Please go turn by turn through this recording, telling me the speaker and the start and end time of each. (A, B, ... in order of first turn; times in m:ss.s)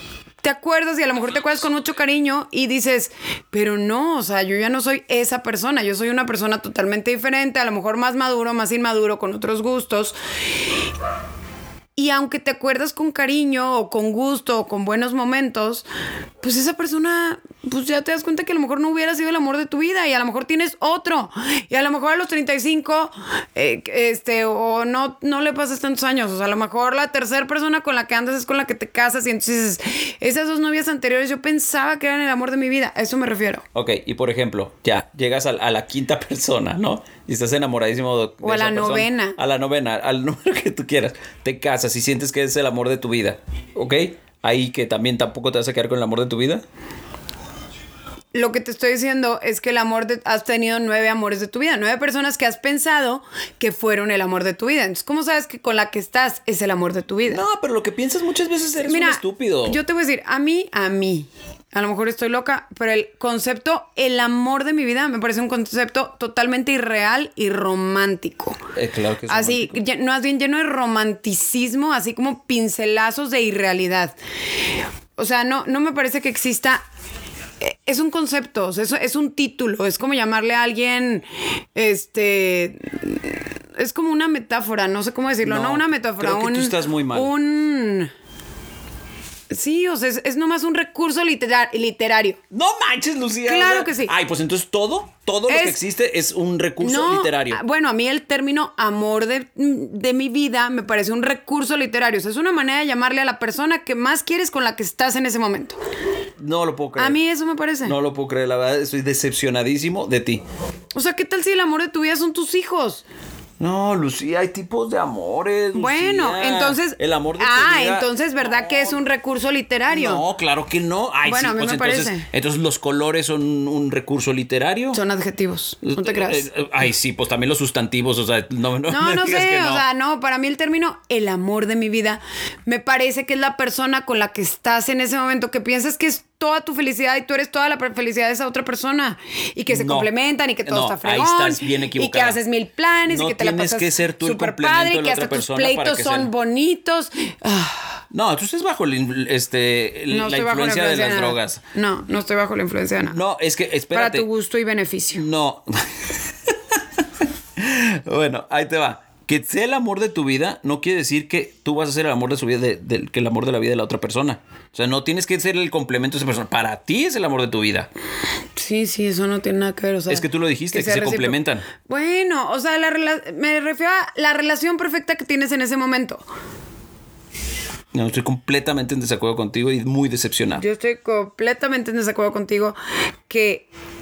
0:00.4-0:10.2 A
0:12.0-0:15.9 A
0:16.4-0:33.6 A
0:33.8-0:46.6 B
0:38.4-0:39.4 A
0:48.3-0:57.4 A
0:57.3-0:59.8 B
0:58.8-1:08.6 A
1:08.8-1:09.8 B
1:09.3-1:14.2 A
1:15.2-1:16.8 A
1:17.6-1:28.1 A
1:25.4-1:27.3 B
1:29.5-1:32.4 A
1:32.5-1:37.6 B
1:33.5-1:34.1 A
1:35.5-1:35.8 A
1:36.8-1:45.8 A
1:46.4-1:47.2 B
1:47.0-1:48.0 A
1:47.8-1:50.4 B
1:50.9-1:53.0 A
1:53.6-1:59.0 B
1:55.8-2:00.2 A
1:59.9-2:05.0 B
2:01.3-2:02.3 A
2:04.9-2:06.5 A
2:05.8-2:09.8 B
2:08.9-2:28.0 A
2:19.7-2:20.1 B
2:20.6-2:22.4 B
2:23.1-2:26.3 B
2:28.1-2:31.6 B
2:30.1-2:33.2 A
2:33.0-2:34.3 B
2:33.9-2:35.2 A
2:35.1-2:35.9 B
2:37.6-2:47.9 B
2:48.6-2:56.2 A
2:50.1-2:51.6 B
2:57.9-3:00.6 B
3:00.6-3:02.8 A
3:03.3-3:03.7 A